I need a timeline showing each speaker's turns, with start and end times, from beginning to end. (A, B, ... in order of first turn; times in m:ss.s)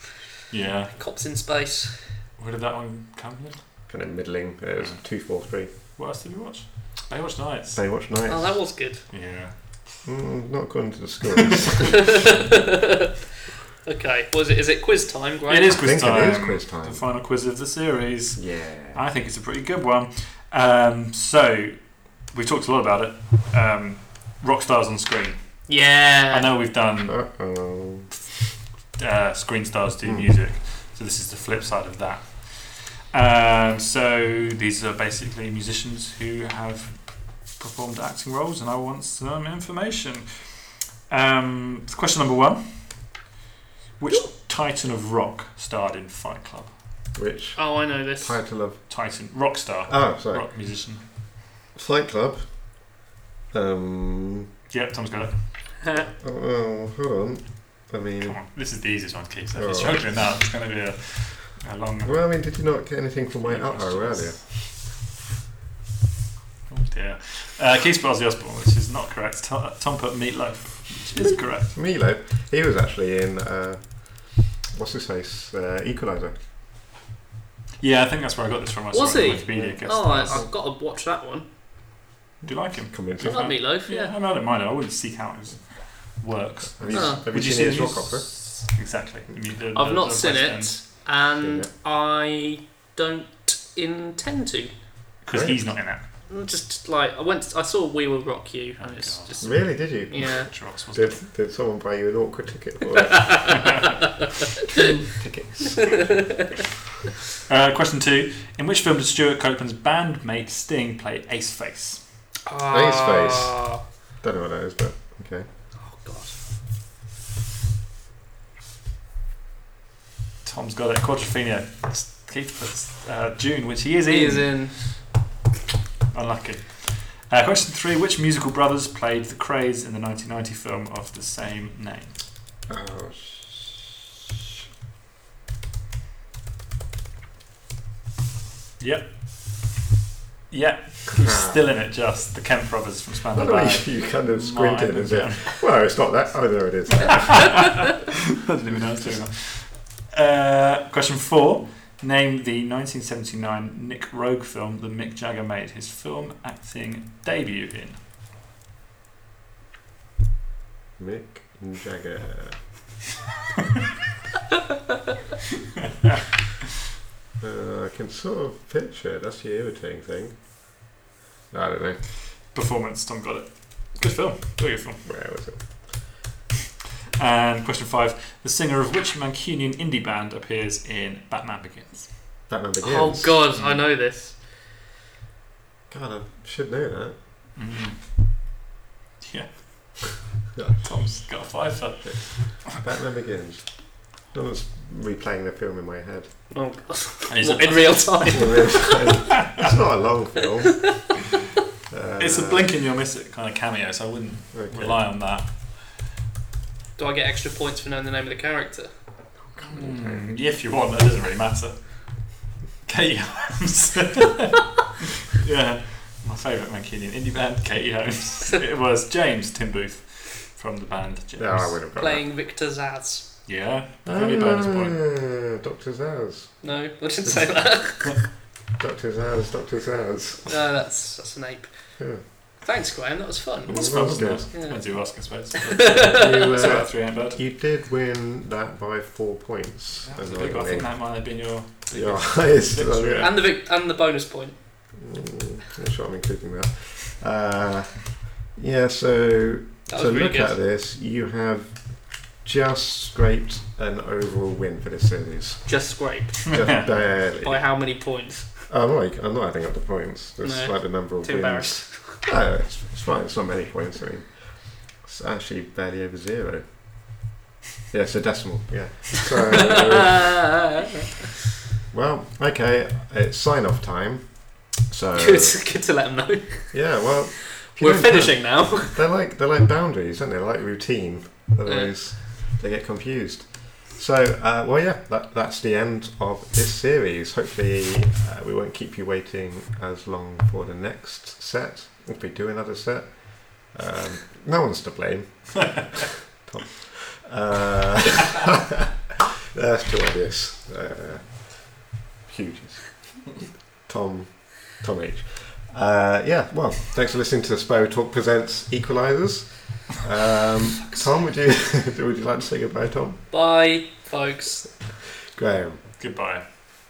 0:00.5-0:01.0 A
0:00.9-0:02.1 B
0:02.4-0:03.8 A
0:03.9-0:05.7 C
0:04.8-0:05.1 A
0:05.6-0:08.0 A
0:07.7-0:08.6 C
0:08.3-0:09.1 B
0:09.1-0:10.0 A
0:10.0-0:12.2 C
0:11.9-0:13.1 B
0:13.8-0:15.8 B
0:15.5-0:27.3 A
0:15.7-0:17.0 C
0:18.4-0:19.0 C
0:25.7-0:26.5 B
0:27.0-0:28.1 C
0:28.9-0:43.2 A
0:44.0-0:46.7 A
0:47.1-0:49.2 C
0:47.6-0:48.4 B
0:48.9-0:51.1 A
0:49.9-0:50.5 C
0:51.7-0:52.9 C
0:53.5-0:54.5 C
0:54.7-0:55.8 A
0:56.0-0:58.4 C
0:58.2-1:02.2 A
0:59.5-1:00.1 C
1:02.0-1:04.4 C
1:03.4-1:04.5 A
1:06.7-1:11.7 A
1:11.7-1:16.4 C
1:17.8-1:20.4 A
1:18.9-1:21.5 B
1:19.4-1:20.5 C
1:22.4-1:23.5 C
1:22.4-1:30.8 A
1:23.2-1:24.1 B
1:26.8-1:28.3 C
1:26.9-1:27.2 B
1:29.7-1:34.7 B
1:31.4-1:31.7 C
1:35.2-1:36.0 A
1:35.3-1:35.7 C
1:36.3-1:40.5 B
1:38.8-1:41.2 A
1:39.4-1:43.8 C
1:43.1-1:43.4 B
1:44.6-1:46.5 C
1:47.5-1:52.0 A
1:52.4-1:53.8 B
1:52.7-1:55.5 C
1:55.8-1:56.4 B
2:00.4-2:05.0 A
2:04.1-2:04.9 B
2:06.1-2:12.2 A
2:12.7-2:13.8 C
2:18.8-2:19.2 A
2:20.5-2:25.6 A
2:21.1-2:21.6 C
2:23.3-2:27.9 C
2:28.4-2:38.0 A
2:41.0-2:42.6 C
2:47.4-2:50.4 C
2:51.5-2:52.0 C
2:52.2-2:55.0 A
2:55.0-2:55.9 C
2:57.2-3:02.2 A
3:02.5-3:03.4 C
3:02.8-3:04.4 B
3:03.5-3:03.8 A
3:05.9-3:07.2 C
3:07.6-3:08.1 A
3:09.2-3:10.2 A
3:10.5-3:10.8 C
3:10.8-3:12.7 A
3:12.0-3:16.4 C
3:16.5-3:19.2 B
3:17.3-3:18.5 A
3:18.3-3:21.1 C
3:21.9-3:22.7 C
3:22.2-3:25.6 A
3:24.5-3:25.0 C
3:27.0-3:28.9 B
3:29.5-3:30.3 C
3:29.6-3:34.6 A
3:35.3-3:41.8 A
3:41.4-3:42.3 C
3:42.0-3:43.4 B
3:43.4-3:45.0 A
3:44.0-3:46.6 C
3:46.6-3:48.3 B
3:47.2-3:50.6 C
3:50.5-3:54.0 B
3:52.0-3:52.2 C
3:53.6-3:54.5 C
3:53.7-3:57.4 A
3:54.5-3:56.6 B
3:56.1-4:01.0 C
4:00.0-4:03.4 A
4:01.9-4:03.4 C
4:03.2-4:04.6 B
4:05.0-4:15.8 C
4:09.9-4:10.6 B
4:15.7-4:18.7 B
4:16.5-4:17.8 C
4:16.6-4:16.9 A
4:18.6-4:26.7 C
4:20.4-4:22.3 B
4:27.9-4:30.4 C
4:30.1-4:30.7 B
4:31.9-4:35.6 C
4:35.2-4:39.0 B
4:36.7-4:58.8 C
4:41.6-4:42.1 B
4:59.5-5:13.2 C
5:13.3-5:14.8 B
5:15.3-5:15.8 C
5:16.0-5:16.4 A